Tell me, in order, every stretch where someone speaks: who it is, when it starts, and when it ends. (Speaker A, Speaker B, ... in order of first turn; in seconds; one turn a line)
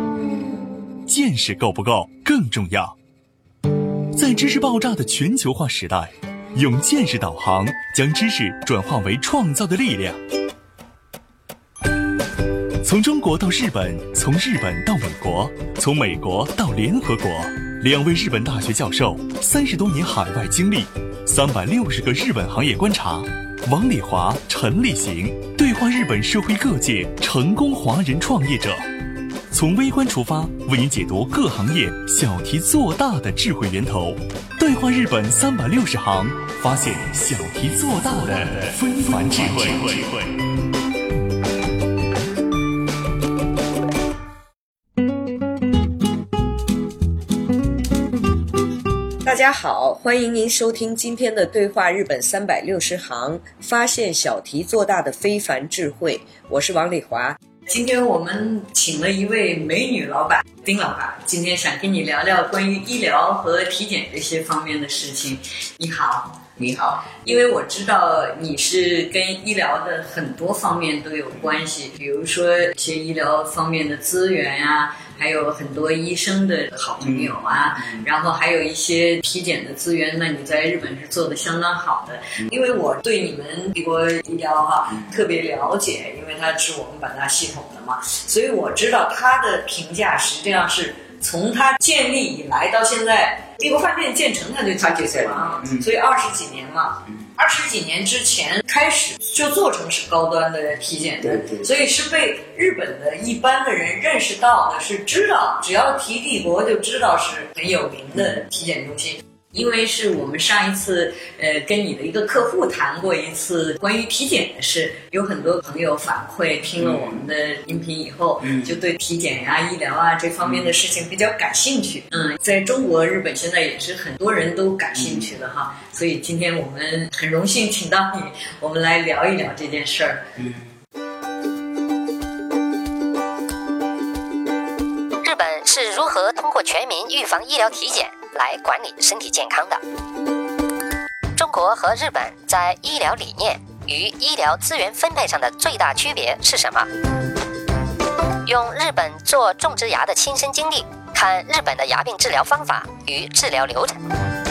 Speaker A: 1.1-3.0
Speaker A: 4.1-10.2
Speaker A: 12.8-28.9
Speaker A: 29.5-40.4
Speaker B: 49.2-57.4
Speaker C: 57.7-66.4
Speaker D: 66.6-67.1
Speaker C: 67.1-130.3
Speaker D: 77.0-78.1
Speaker D: 94.8-95.9
Speaker D: 101.2-101.7
Speaker D: 108.2-108.4
Speaker D: 116.8-117.3
Speaker D: 118.4-118.8
Speaker D: 120.4-120.7
Speaker D: 125.0-125.3
Speaker D: 130.4-130.6
Speaker E: 135.2-139.8
Speaker E: 141.4-146.9
Speaker E: 148.5-154.0